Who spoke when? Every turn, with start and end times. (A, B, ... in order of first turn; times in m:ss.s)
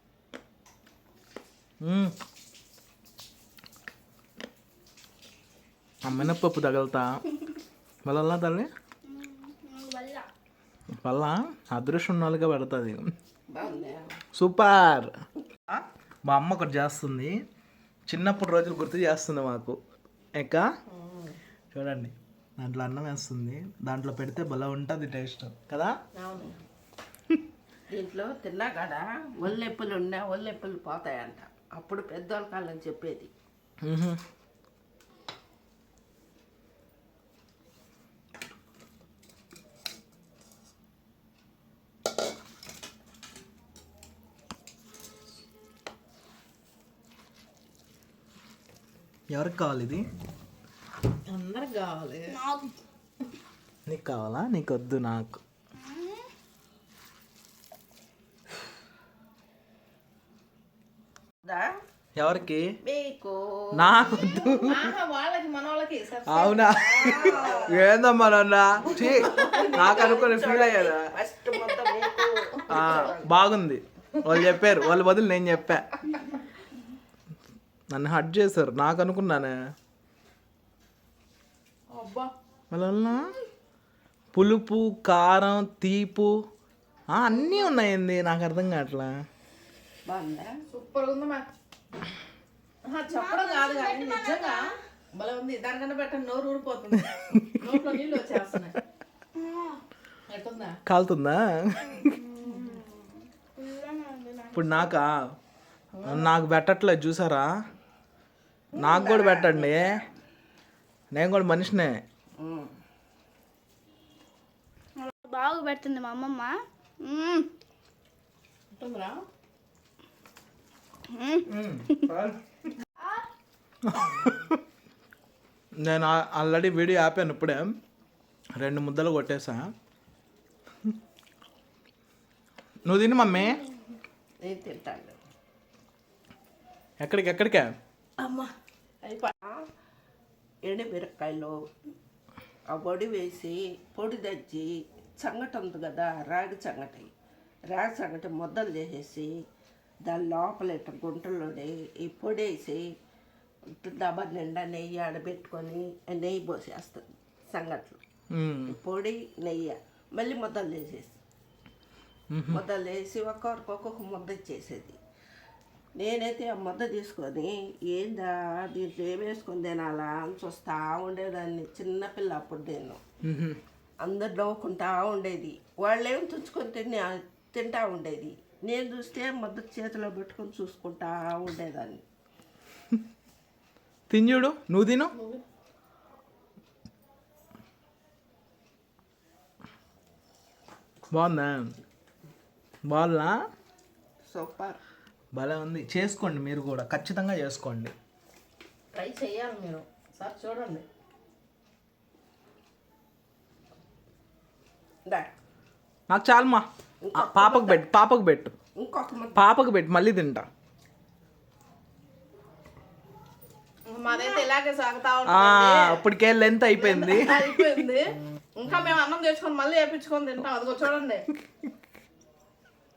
0:01.8-0:02.1 A
0:06.0-0:07.2 A
0:08.0-0:08.7 A
0:09.0-0:10.3 B
0:11.0-0:13.1 A
0:13.5-0:14.2 C
0:14.4-0:15.1 A
0:15.7-0:17.3 A
0:18.1-0:19.8 A
0:20.4-0:20.6 A
0:20.9-0:21.4 D
0:21.7-0:25.9 A
0:26.1-0:26.5 D
0:27.9-0:33.3 C
0:33.8-0:34.2 A
0:49.3-0:50.0 A
0:51.3-0:52.5 D
0:52.3-0:52.7 B
0:53.9-0:55.4 A
0:55.8-0:56.2 B
1:02.2-1:02.6 A
1:02.8-1:04.6 C
1:03.8-1:04.9 A
1:04.6-1:07.7 D
1:06.3-1:11.1 A
1:07.0-1:07.8 C
1:08.9-1:13.3 C
1:09.2-1:09.8 D
1:12.7-1:15.9 A
1:14.3-1:14.7 D
1:17.9-1:19.5 A
1:21.9-1:22.3 D
1:22.7-1:23.3 A
1:24.3-1:26.3 A
1:27.1-1:29.1 A
1:30.0-1:30.5 C
1:30.7-1:31.4 D
1:32.9-1:34.6 D
1:33.1-1:34.6 B
1:35.2-1:38.8 D
1:37.0-1:38.2 A
1:39.4-1:39.8 B
1:40.3-1:40.8 D
1:40.8-1:42.2 A
1:42.0-1:44.9 B
1:42.4-1:42.8 D
1:44.5-1:45.1 A
1:46.0-1:46.3 D
1:46.0-1:47.5 A
1:48.7-1:50.1 C
1:48.7-1:50.0 A
1:51.1-1:52.0 A
1:52.4-1:52.7 C
1:55.0-1:57.5 B
1:58.7-1:59.2 D
2:01.1-2:02.1 B
2:01.4-2:02.4 A
2:03.8-2:04.6 A
2:05.8-2:07.7 A
2:08.6-2:09.7 A
2:12.8-2:13.6 A
2:14.4-2:15.1 C
2:17.0-2:17.7 A
2:18.2-2:18.5 D
2:19.0-2:19.3 D
2:20.6-2:21.5 C
2:22.7-2:27.1 C
2:27.7-2:29.3 C
2:30.0-2:32.9 C
2:33.8-2:38.0 C
2:38.3-2:38.8 A
2:38.7-2:41.2 C
2:42.3-2:42.6 A
2:42.5-2:45.0 C
2:46.0-2:53.0 C
2:53.2-2:53.6 A
2:54.0-3:02.0 C
3:04.1-3:05.1 A
3:05.1-3:05.4 D
3:11.1-3:11.8 A
3:12.9-3:13.3 A
3:14.3-3:14.8 C
3:15.3-3:17.9 A
3:18.9-3:20.8 D
3:26.1-3:28.5 A
3:27.0-3:27.8 C
3:28.8-3:29.4 C
3:29.3-3:30.5 A
3:33.9-3:36.0 D
3:35.2-3:37.8 A
3:36.7-3:41.3 D